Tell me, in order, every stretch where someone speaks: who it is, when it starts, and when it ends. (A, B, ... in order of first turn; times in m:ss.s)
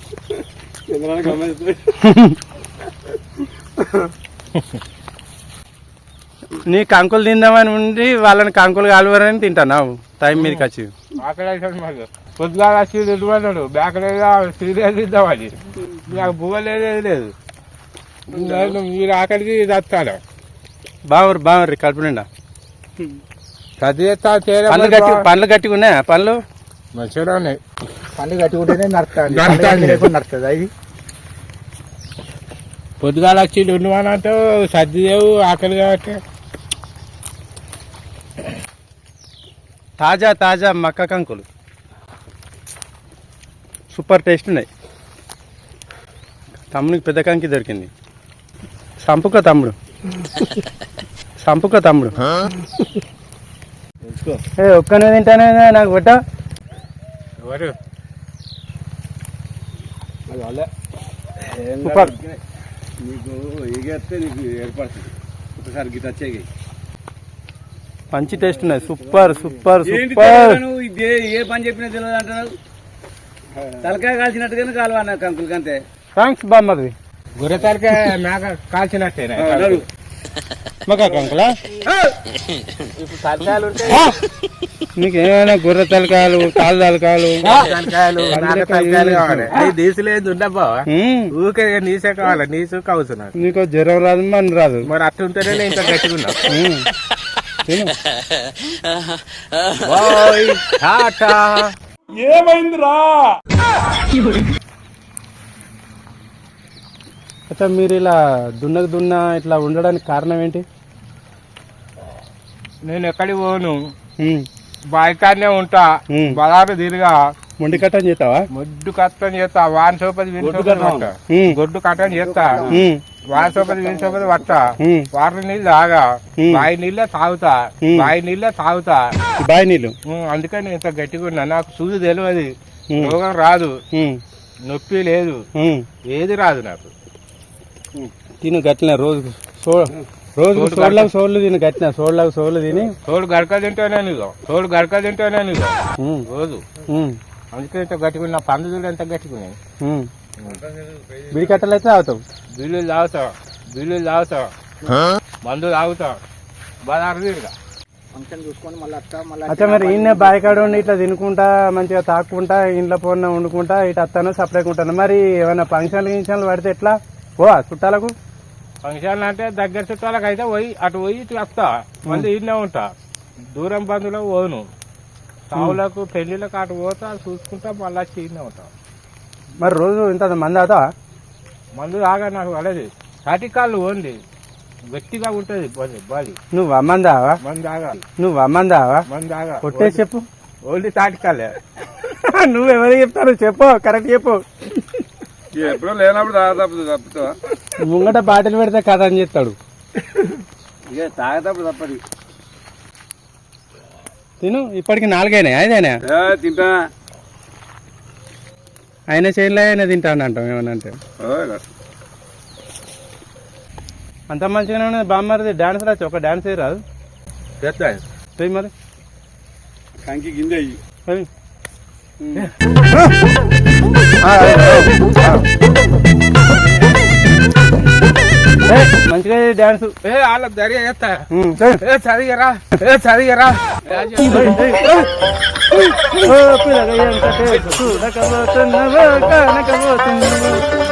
0:00.9-0:01.9 A
0:02.0-0:02.4 B
0:04.6-0:04.8 C
0:06.7-0:10.9 B
0:10.4-0:10.6 C
0:11.2-0:17.3 C
0:18.3-0:20.2 C
0:21.1-0:22.3 B
0:23.8-0:25.2 C
0:24.7-0:26.4 B
0:27.0-0:27.6 C
0:28.2-0:30.7 D
0:29.3-0:30.1 C
0:33.0-0:36.2 C
0:40.0-0:41.4 B
0:43.9-0:44.7 B
0:46.7-0:47.9 B
0:49.0-0:49.7 B
0:51.4-0:52.2 B
0:54.6-0:56.2 B
0:57.4-0:57.8 C
1:00.3-1:00.7 D
1:01.4-1:02.4 A
1:01.8-1:02.1 B
1:03.0-1:06.5 A
1:08.1-1:10.6 B
1:09.8-1:12.6 A
1:13.8-1:15.8 A
1:16.2-1:16.9 B
1:17.4-1:19.8 C
1:19.4-1:19.8 A
1:20.9-1:21.5 B
1:21.8-1:22.1 C
1:23.0-1:24.2 C
1:25.0-1:27.6 B
1:27.4-1:33.4 C
1:28.3-1:29.5 B
1:30.9-1:31.3 B
1:33.4-1:34.9 B
1:34.8-1:36.5 C
1:36.5-1:36.9 B
1:37.6-1:38.0 B
1:39.8-1:41.7 C
1:42.3-1:43.2 B
1:47.5-1:50.6 B
1:52.8-1:53.8 C
1:54.2-1:54.5 B
1:54.9-1:57.2 C
1:56.1-1:56.4 B
1:57.6-1:58.5 B
1:58.5-2:02.7 C
2:00.4-2:01.1 A
2:01.3-2:01.6 B
2:02.1-2:02.8 A
2:02.7-2:03.0 B
2:03.3-2:09.2 C
2:03.4-2:04.2 A
2:04.8-2:05.1 B
2:06.4-2:06.7 B
2:07.8-2:08.1 B
2:09.4-2:09.9 B
2:10.1-2:13.8 C
2:13.9-2:14.2 B
2:14.6-2:15.4 C
2:15.6-2:15.9 B
2:16.1-2:16.9 C
2:18.4-2:23.0 B
2:20.5-2:21.1 C
2:23.1-2:25.8 C
2:26.0-2:26.3 B
2:26.3-2:26.7 C
2:26.9-2:27.2 B
2:27.5-2:29.6 C
2:29.8-2:30.1 B
2:30.7-2:31.3 A
2:31.3-2:32.2 B
2:32.6-2:34.5 C
2:35.4-2:36.2 C
2:36.8-2:37.5 C
2:38.1-2:40.8 D
2:39.5-2:48.2 B
2:48.8-2:52.9 C
2:53.5-2:54.7 C
2:55.5-2:58.7 C
2:59.6-3:00.9 B
3:01.8-3:04.2 C
3:04.9-3:06.4 C
3:06.5-3:07.4 B
3:07.4-3:08.0 C
3:08.2-3:09.1 B
3:09.1-3:10.0 C
3:09.6-3:10.2 B
3:10.6-3:11.6 C
3:12.0-3:14.4 B
3:15.5-3:17.4 A
3:17.8-3:19.6 B
3:20.9-3:22.0 A
3:24.4-3:26.0 B
3:26.1-3:26.8 A
3:29.1-3:31.0 B
3:31.2-3:31.6 A
3:34.3-3:36.8 B
3:37.6-3:38.0 C
3:38.4-3:38.7 B
3:40.0-3:40.8 A
3:44.2-3:45.4 B
3:48.6-3:49.9 B
3:50.0-3:51.2 C
3:51.3-3:51.8 B
3:51.8-3:54.9 C
3:54.2-3:55.0 B
3:55.8-4:00.6 B
3:57.5-3:58.0 C